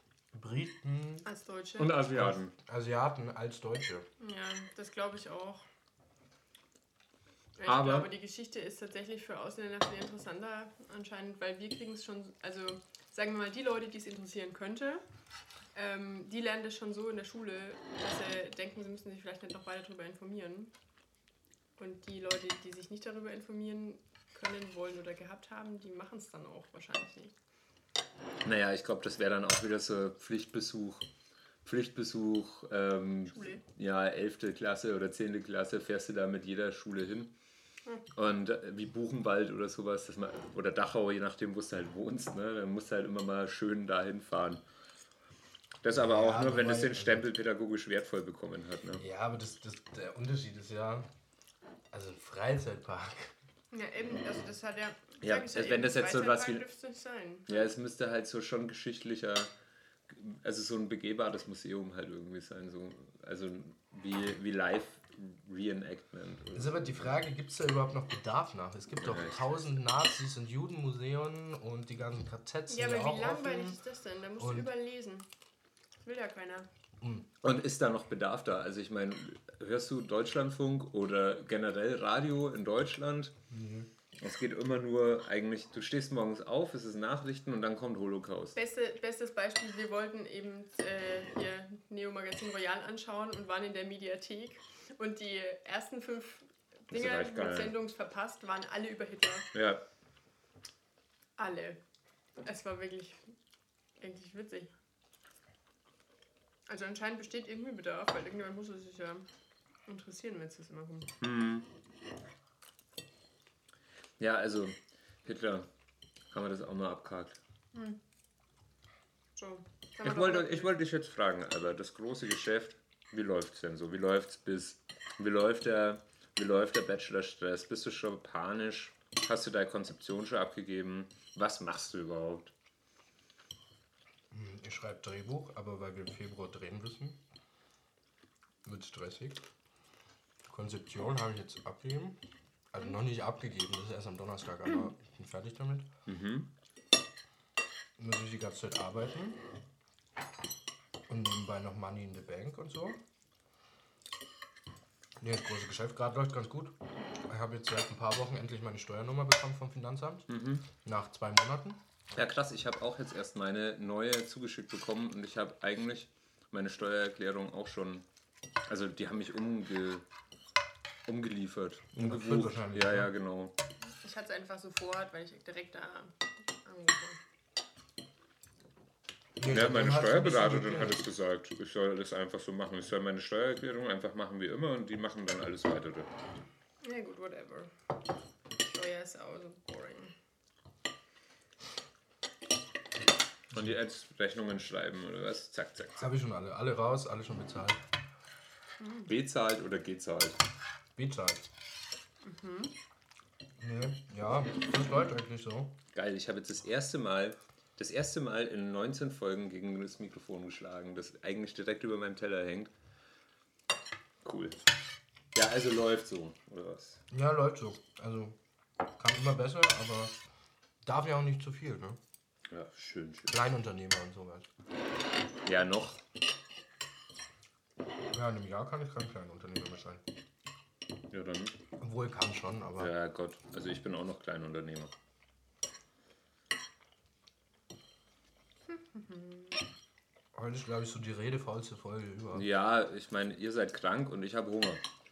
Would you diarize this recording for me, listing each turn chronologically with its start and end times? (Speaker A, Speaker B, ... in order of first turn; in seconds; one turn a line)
Speaker A: 0.3-1.3
Speaker B: 1.2-1.9
Speaker C: 1.8-2.5
Speaker A: 2.1-4.1
Speaker B: 4.2-5.6
Speaker B: 7.6-15.0
Speaker C: 7.7-8.1
Speaker B: 15.8-20.7
Speaker B: 21.8-27.3
Speaker C: 28.4-31.1
Speaker C: 31.6-37.3
Speaker B: 33.3-33.6
Speaker C: 38.1-44.6
Speaker C: 45.8-49.0
Speaker A: 45.9-47.3
Speaker A: 49.0-51.1
Speaker A: 51.9-53.3
Speaker B: 53.7-57.7
Speaker C: 55.2-56.6
Speaker C: 57.5-59.5
Speaker C: 60.1-67.0
Speaker A: 66.5-73.8
Speaker C: 69.0-69.4
Speaker B: 72.7-75.3
Speaker A: 74.4-74.7
Speaker B: 76.0-76.7
Speaker A: 77.0-77.3
Speaker C: 77.4-83.3
Speaker A: 83.5-83.9
Speaker C: 84.2-88.6
Speaker B: 88.5-99.5
Speaker C: 96.9-97.7
Speaker C: 99.5-99.8
Speaker B: 101.4-101.8
Speaker B: 102.4-103.2
Speaker B: 104.0-104.7
Speaker B: 106.7-109.3
Speaker B: 109.9-111.1
Speaker C: 111.2-111.7
Speaker C: 114.2-115.7
Speaker C: 116.3-117.4
Speaker B: 119.4-120.7
Speaker C: 120.0-132.5
Speaker A: 134.3-137.2
Speaker A: 138.6-139.4
Speaker A: 140.5-142.2
Speaker A: 142.7-145.9
Speaker C: 146.1-146.5
Speaker A: 148.0-149.4
Speaker A: 151.1-153.0
Speaker A: 155.2-161.8
Speaker C: 160.3-160.7
Speaker C: 162.2-168.1
Speaker C: 168.7-170.1
Speaker C: 171.1-173.6
Speaker A: 172.0-173.1
Speaker B: 174.0-177.2
Speaker A: 179.4-181.0
Speaker C: 179.5-186.1
Speaker B: 186.8-187.7
Speaker B: 188.6-190.1
Speaker C: 193.5-196.1
Speaker A: 196.0-197.8
Speaker B: 198.8-199.1
Speaker C: 199.1-200.4
Speaker A: 201.0-201.5
Speaker B: 202.2-202.7
Speaker A: 203.6-205.8
Speaker C: 205.9-212.7
Speaker C: 214.2-214.6
Speaker C: 215.3-217.0
Speaker A: 217.1-218.4
Speaker A: 219.0-220.2
Speaker A: 220.8-222.0
Speaker C: 222.5-223.4
Speaker A: 223.3-224.5
Speaker C: 225.4-226.0
Speaker A: 228.1-230.0
Speaker C: 231.1-231.6
Speaker A: 231.8-232.9
Speaker C: 232.8-234.9
Speaker B: 238.7-239.6
Speaker A: 240.3-242.5
Speaker C: 242.3-244.8